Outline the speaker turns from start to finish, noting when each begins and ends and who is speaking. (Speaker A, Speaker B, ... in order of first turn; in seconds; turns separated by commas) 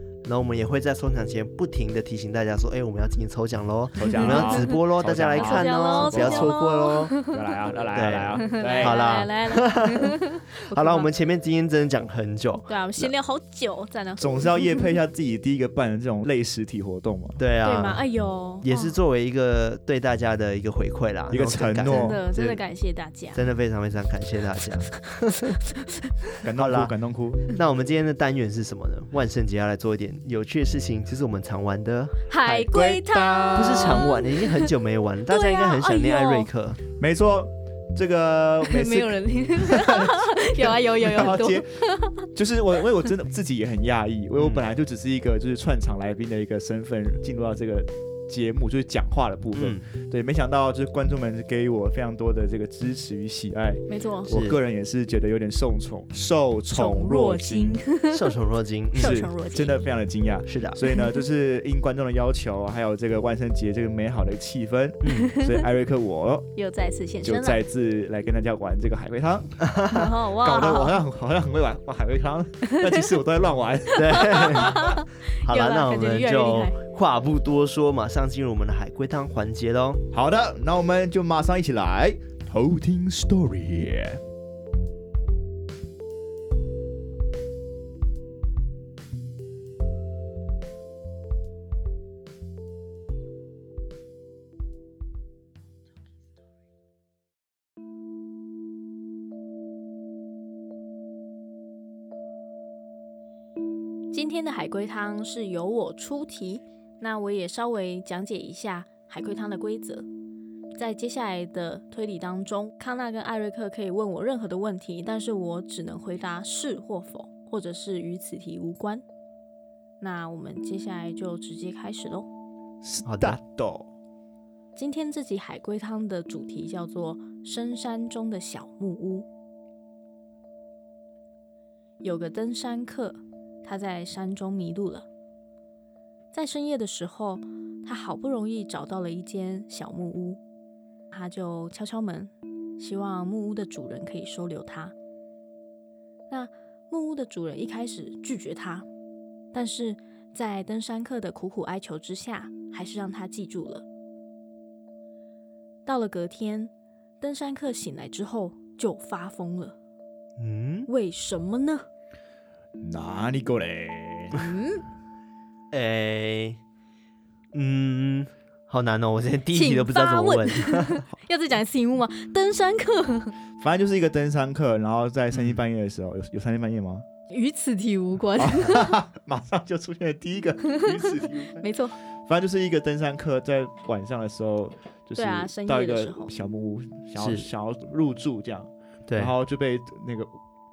Speaker A: 0.2-6.6, Speaker B: 4.0-9.0, Speaker C: 4.1-4.8, Speaker C: 5.3-7.4, Speaker A: 7.9-10.2, Speaker C: 8.4-11.1, Speaker A: 10.7-13.1, Speaker C: 12.7-14.9, Speaker B: 14.2-17.4, Speaker A: 17.4-18.0, Speaker C: 17.6-18.9, Speaker A: 18.6-22.6, Speaker B: 21.3-22.2, Speaker C: 21.9-23.4, Speaker A: 23.3-25.6, Speaker B: 26.4-27.4, Speaker A: 26.4-26.9, Speaker A: 27.5-32.3, Speaker C: 32.3-34.7, Speaker B: 32.4-34.1, Speaker A: 33.5-36.8, Speaker C: 35.3-36.5, Speaker B: 37.0-57.8, Speaker C: 38.6-42.2, Speaker A: 44.4-44.6, Speaker A: 49.5-49.8, Speaker C: 53.9-54.3, Speaker A: 54.3-54.6, Speaker C: 56.7-58.3, Speaker A: 58.1-59.2, Speaker C: 58.9-59.8, Speaker B: 59.0-66.5, Speaker A: 60.5-60.8, Speaker A: 65.0-65.3, Speaker C: 65.1-65.7, Speaker C: 66.5-67.6, Speaker B: 67.2-69.6, Speaker A: 69.6-70.1, Speaker C: 69.9-71.0, Speaker B: 70.4-74.8, Speaker C: 72.6-73.1, Speaker C: 73.9-76.8, Speaker A: 74.0-74.9, Speaker A: 75.4-80.0, Speaker B: 80.1-84.2, Speaker C: 104.1-110.1, Speaker C: 110.7-119.0, Speaker C: 120.0-122.3, Speaker B: 122.8-123.9, Speaker A: 123.0-123.4, Speaker C: 124.8-129.2, Speaker C: 132.0-135.1, Speaker C: 136.3-140.4, Speaker C: 141.1-144.9, Speaker C: 146.3-148.8, Speaker C: 149.5-153.8, Speaker C: 155.8-159.7, Speaker A: 160.4-160.9, Speaker C: 160.9-161.8, Speaker B: 162.8-164.4, Speaker C: 164.3-164.8, Speaker A: 165.7-166.6, Speaker A: 167.5-171.0, Speaker C: 169.5-173.3, Speaker B: 173.6-177.0, Speaker C: 177.3-179.0, Speaker B: 178.4-181.7, Speaker C: 180.6-181.9, Speaker B: 182.2-190.3, Speaker C: 185.2-186.3, Speaker A: 187.2-187.5, Speaker A: 189.1-189.3